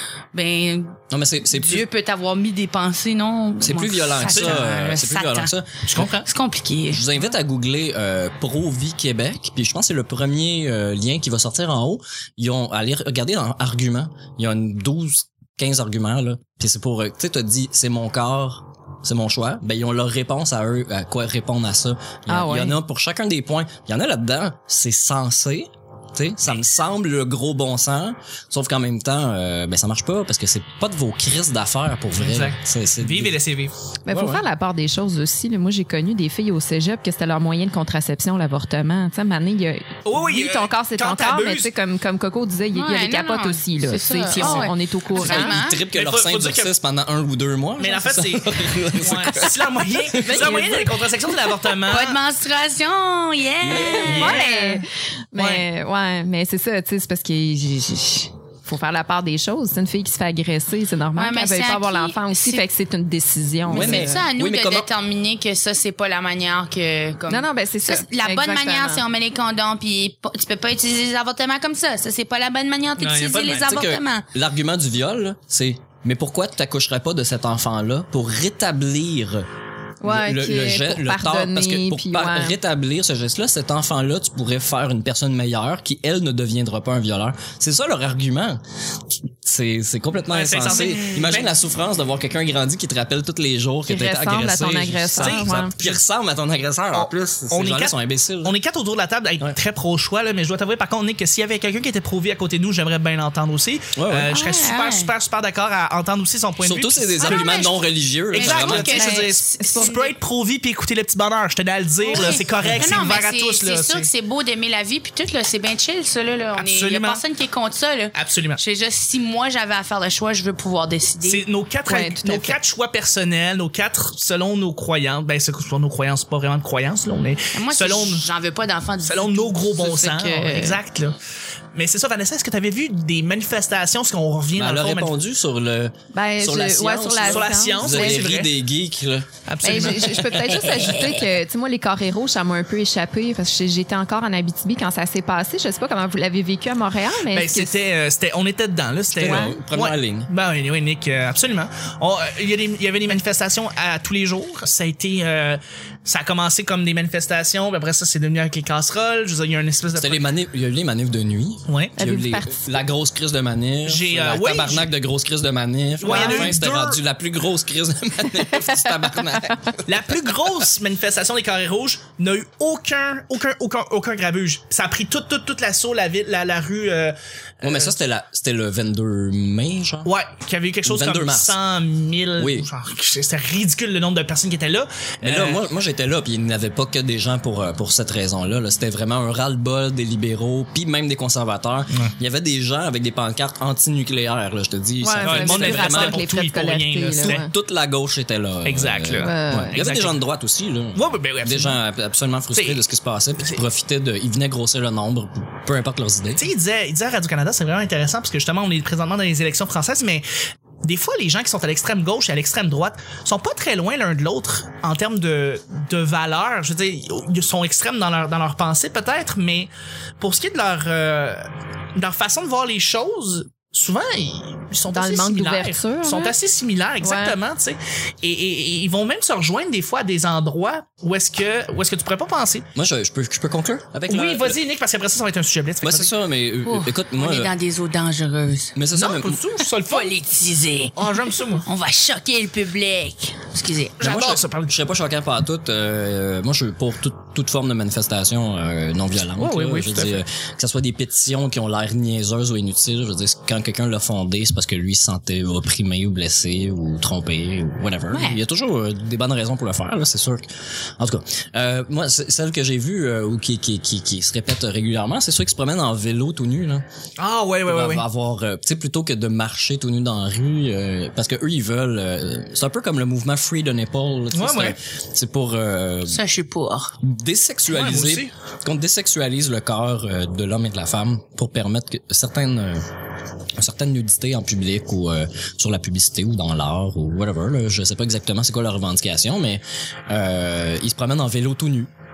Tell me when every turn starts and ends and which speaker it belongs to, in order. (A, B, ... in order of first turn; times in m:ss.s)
0:00.3-0:07.1 A
0:01.1-0:01.9 B
0:03.6-0:06.0 B
0:04.3-0:04.6 C
0:05.8-0:06.3 C
0:06.9-0:33.4 B
0:22.3-0:22.8 D
0:32.2-0:33.7 C
0:34.1-0:45.6 D
0:34.1-0:34.4 B
0:40.0-0:41.7 C
0:42.7-0:45.8 A
0:44.4-0:44.6 C
0:45.2-0:50.7 B
0:45.2-0:46.8 C
0:47.8-0:52.2 C
0:50.4-0:50.9 D
0:51.8-0:54.8 A
0:53.6-0:54.3 B
0:54.0-1:04.2 D
0:54.0-0:54.4 C
0:55.4-0:55.7 C
1:01.2-1:02.6 A
1:03.7-1:04.9 B
1:03.7-1:14.2 A
1:07.3-1:09.0 D
1:13.0-1:13.8 C
1:13.6-1:19.5 B
1:20.0-1:22.6 D
1:20.0-1:28.6 B
1:29.4-1:38.6 B
1:30.3-1:31.5 C
1:33.9-1:35.8 D
1:35.2-1:36.0 C
1:36.9-1:47.6 C
1:44.0-1:44.3 B
1:44.3-1:45.1 A
1:46.6-1:49.1 B
1:47.2-1:50.1 A
1:48.3-1:54.1 C
1:49.1-1:50.0 D
1:52.0-2:01.5 A
1:56.6-1:57.2 C
1:58.1-1:58.6 C
2:01.3-2:08.2 C
2:01.8-2:02.6 D
2:07.5-2:10.8 A
2:09.0-2:11.2 C
2:11.8-2:15.1 C
2:14.6-2:21.3 B
2:16.1-2:18.3 D
2:17.2-2:18.5 C
2:19.5-2:20.3 C
2:19.6-2:27.7 D
2:27.3-2:40.3 C
2:29.1-2:30.3 B
2:29.2-2:29.6 D
2:40.0-2:50.1 B
2:41.7-2:42.0 C
2:42.0-2:42.8 D
2:43.9-2:44.9 C
2:46.0-2:47.0 C
2:46.1-2:46.5 D
2:49.9-2:58.0 C
2:57.6-3:00.1 B
3:00.0-3:05.6 C
3:00.8-3:01.6 B
3:02.4-3:02.7 B
3:05.2-3:16.2 B
3:15.0-3:17.5 D
3:15.2-3:17.4 C
3:17.2-3:26.4 B
3:18.6-3:20.2 C
3:19.2-3:19.8 D
3:21.0-3:21.8 C
3:22.6-3:22.8 C
3:26.4-3:30.2 C
3:30.8-3:52.7 C
3:44.9-3:46.4 D
3:47.0-3:47.4 D
3:52.7-3:54.6 B
3:54.1-3:56.1 C
3:55.8-3:57.5 B
3:56.6-3:58.8 A
3:58.8-3:59.5 B
3:58.9-4:00.2 C
3:59.8-4:04.0 A
4:01.0-4:01.6 C
4:04.0-4:04.7 C
4:04.0-4:20.5 B
4:09.4-4:10.2 C
4:18.1-4:18.4 A
4:21.0-4:26.8 B
4:27.2-4:28.0 C
4:27.6-4:36.2 B
4:34.3-4:34.8 C
4:36.1-4:37.0 A
4:37.0-4:42.8 B
4:37.7-4:38.3 C
4:43.6-4:51.9 B